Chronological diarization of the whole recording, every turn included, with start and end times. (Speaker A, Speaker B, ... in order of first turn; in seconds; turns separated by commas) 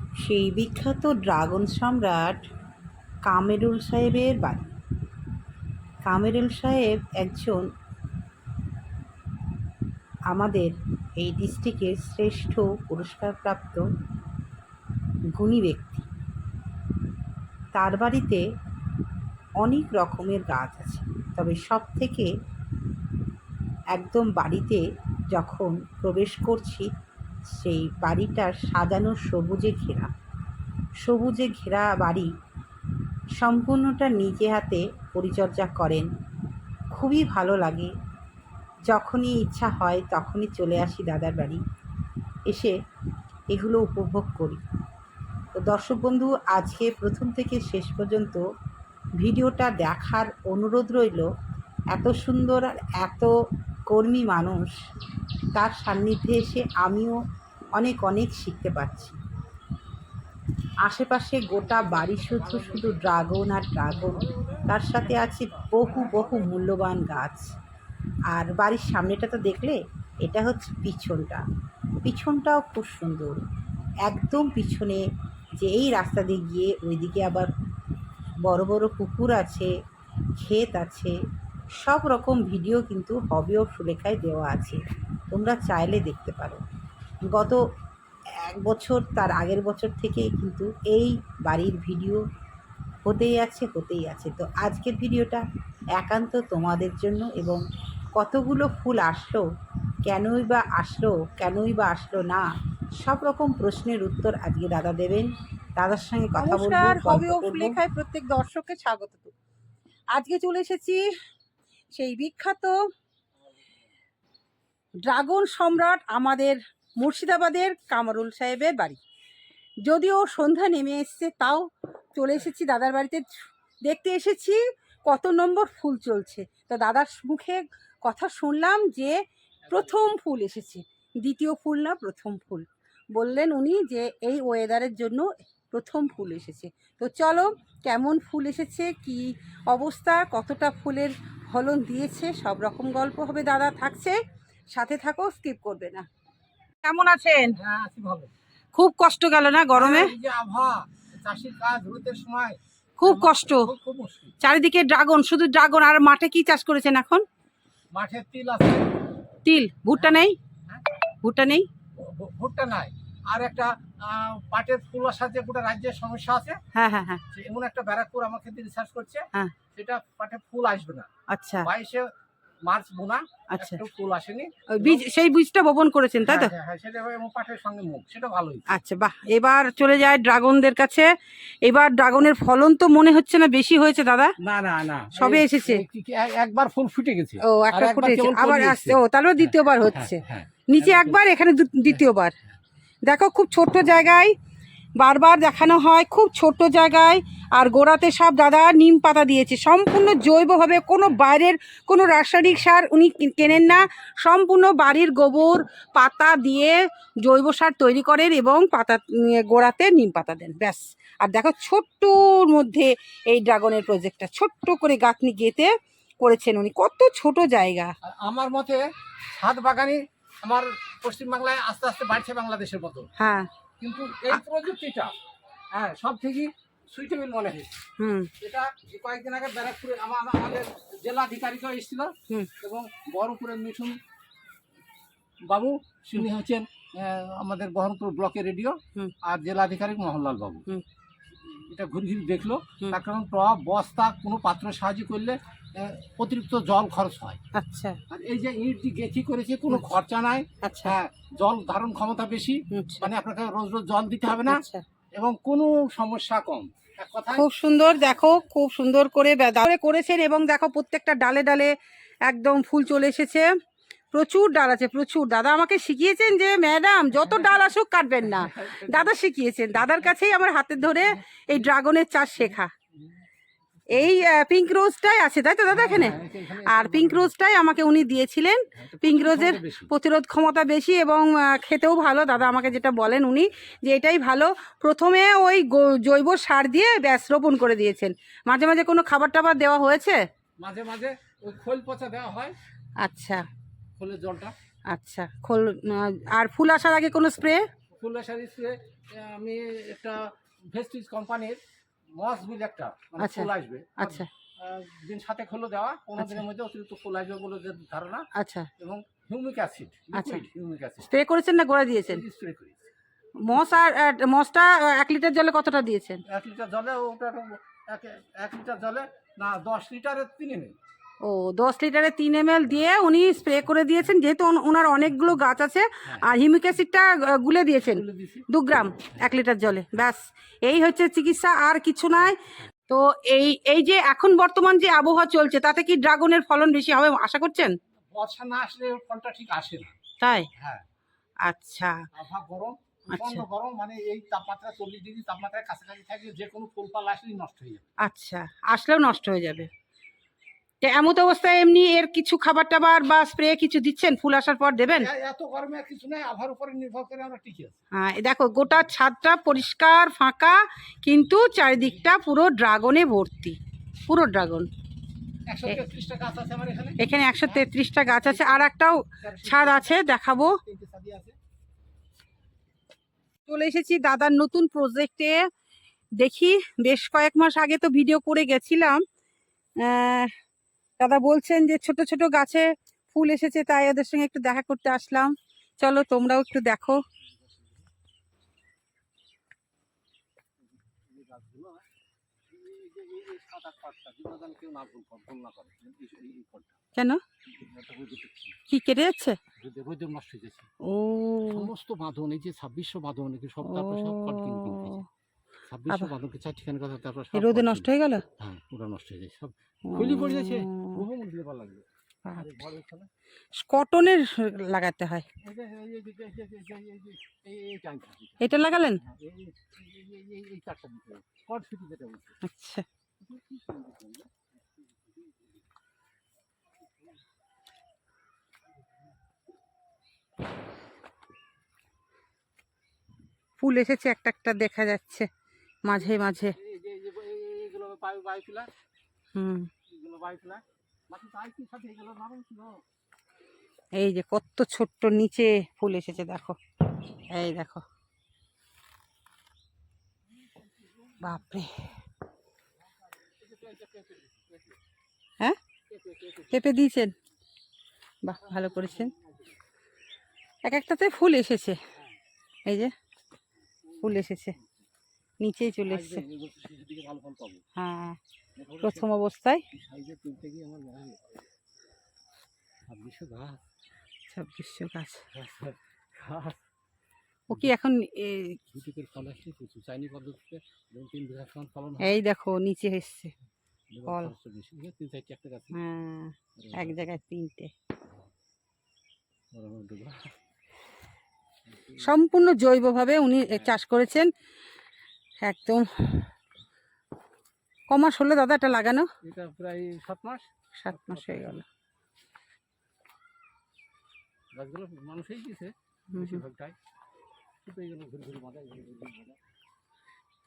Speaker A: 0.2-2.4, Speaker A: 3.3-4.7, Speaker A: 6.0-7.7, Speaker A: 10.3-13.8, Speaker A: 15.3-16.1, Speaker A: 17.7-18.4, Speaker A: 19.6-22.3, Speaker A: 23.9-26.9, Speaker A: 27.5-30.1, Speaker A: 31.0-32.3, Speaker A: 33.4-36.1, Speaker A: 36.9-37.9, Speaker A: 38.9-41.6, Speaker A: 42.5-42.8, Speaker A: 43.5-44.6, Speaker A: 45.5-48.4, Speaker A: 49.2-51.3, Speaker A: 51.9-53.3, Speaker A: 53.9-54.7, Speaker A: 55.5-57.2, Speaker A: 57.8-59.2, Speaker A: 60.8-67.5, Speaker B: 61.5-63.3, Speaker B: 63.9-66.6, Speaker A: 68.3-71.4, Speaker A: 72.0-73.4, Speaker A: 74.0-75.0, Speaker A: 75.6-77.5, Speaker A: 78.4-79.7, Speaker A: 80.4-81.1, Speaker A: 81.8-84.8, Speaker A: 85.3-86.6, Speaker A: 87.3-87.6, Speaker A: 88.4-92.2, Speaker A: 93.0-95.4, Speaker A: 96.0-97.6, Speaker A: 98.2-99.4, Speaker A: 100.0-102.5, Speaker A: 103.0-107.8, Speaker C: 106.4-109.3, Speaker C: 110.1-111.0, Speaker C: 111.9-112.8, Speaker C: 115.0-119.0, Speaker C: 119.8-123.3, Speaker C: 123.8-144.1, Speaker B: 129.7-129.9, Speaker C: 144.7-146.1, Speaker C: 146.8-147.6, Speaker B: 147.6-148.3, Speaker C: 148.7-150.1, Speaker B: 149.7-154.3, Speaker C: 153.0-153.7, Speaker C: 154.4-157.2, Speaker B: 157.9-159.0, Speaker C: 159.4-160.4, Speaker B: 159.9-160.9, Speaker C: 161.2-161.7, Speaker B: 162.0-166.6, Speaker C: 166.7-167.2, Speaker B: 167.3-171.1, Speaker C: 171.3-171.7, Speaker B: 171.6-172.1, Speaker B: 172.6-175.0, Speaker C: 173.5-173.8, Speaker C: 174.7-176.5, Speaker B: 176.2-178.8, Speaker C: 178.7-181.1, Speaker C: 181.6-184.3, Speaker B: 184.4-191.2, Speaker C: 185.1-185.8, Speaker C: 187.4-192.3, Speaker C: 193.1-194.3, Speaker C: 195.0-217.9, Speaker B: 218.0-218.8, Speaker B: 219.3-223.1, Speaker C: 223.2-223.5, Speaker B: 223.8-225.2, Speaker B: 225.7-227.7, Speaker C: 228.0-228.3, Speaker B: 228.4-234.0, Speaker B: 235.5-240.7, Speaker B: 241.5-247.4, Speaker C: 247.5-248.0, Speaker B: 248.1-257.5, Speaker C: 250.6-250.9, Speaker C: 252.7-253.1, Speaker C: 254.5-254.8, Speaker C: 257.3-261.7, Speaker C: 262.3-263.5, Speaker C: 264.1-272.7, Speaker B: 267.2-267.5, Speaker B: 268.2-269.1, Speaker B: 269.8-270.1, Speaker C: 273.9-290.2, Speaker B: 275.7-277.3, Speaker B: 278.7-279.9, Speaker B: 290.6-292.6, Speaker C: 293.0-293.4, Speaker B: 294.0-294.5, Speaker C: 294.9-297.6, Speaker B: 297.9-301.6, Speaker B: 302.1-311.1, Speaker C: 303.2-304.3, Speaker C: 308.3-308.7, Speaker C: 310.1-310.4, Speaker C: 311.1-312.2, Speaker B: 311.9-312.9, Speaker C: 313.4-316.2, Speaker B: 316.3-320.8, Speaker C: 321.2-337.7, Speaker B: 327.8-328.5, Speaker B: 338.1-339.9, Speaker C: 340.2-340.5, Speaker B: 340.6-340.8, Speaker C: 341.4-342.0, Speaker B: 342.1-347.9, Speaker C: 343.1-343.4, Speaker C: 348.0-349.7, Speaker C: 350.8-355.1, Speaker B: 354.9-357.8, Speaker C: 357.9-364.7, Speaker B: 365.5-367.6, Speaker C: 367.0-370.6, Speaker B: 368.1-368.7, Speaker B: 369.2-371.4, Speaker C: 373.5-375.4, Speaker C: 376.2-379.0, Speaker C: 379.8-380.3, Speaker C: 381.0-387.0, Speaker B: 390.9-391.8, Speaker B: 392.5-396.8, Speaker C: 397.0-397.2, Speaker B: 397.5-398.6, Speaker C: 398.7-399.4, Speaker B: 399.6-400.7, Speaker C: 400.8-401.7, Speaker B: 401.5-405.0, Speaker C: 403.6-405.1, Speaker B: 405.7-413.1, Speaker C: 407.3-408.2, Speaker C: 409.9-411.0, Speaker C: 412.2-412.6, Speaker C: 413.6-415.3, Speaker B: 415.4-418.4, Speaker C: 418.4-419.0, Speaker B: 419.0-422.4, Speaker C: 422.4-422.8, Speaker B: 423.2-425.5, Speaker C: 433.6-435.3, Speaker C: 435.8-436.6, Speaker B: 436.5-438.7, Speaker C: 439.3-439.7, Speaker B: 439.9-442.8, Speaker C: 443.9-446.6, Speaker C: 447.3-447.8, Speaker C: 451.2-451.9, Speaker B: 453.2-454.8, Speaker B: 455.9-456.6, Speaker C: 456.5-457.1, Speaker C: 458.2-459.1, Speaker B: 458.5-459.5, Speaker C: 460.6-461.8, Speaker C: 462.6-462.9, Speaker B: 463.9-464.1, Speaker C: 464.0-464.6, Speaker C: 465.4-466.2, Speaker B: 465.8-467.6, Speaker C: 467.8-468.2, Speaker B: 468.6-469.1, Speaker C: 468.8-469.6, Speaker B: 469.7-471.4, Speaker B: 472.9-473.6, Speaker C: 474.3-475.2, Speaker B: 475.3-476.6, Speaker C: 477.5-478.6, Speaker B: 478.7-482.2, Speaker C: 482.0-483.3, Speaker B: 483.9-485.8, Speaker C: 484.1-484.3, Speaker C: 485.7-487.7, Speaker B: 486.6-487.1, Speaker B: 489.5-490.3, Speaker B: 491.7-492.1, Speaker C: 492.0-494.3, Speaker C: 495.4-496.3, Speaker C: 497.9-499.1, Speaker B: 499.2-501.6, Speaker C: 500.8-501.6, Speaker B: 504.5-506.8, Speaker C: 506.1-506.4, Speaker B: 507.6-509.4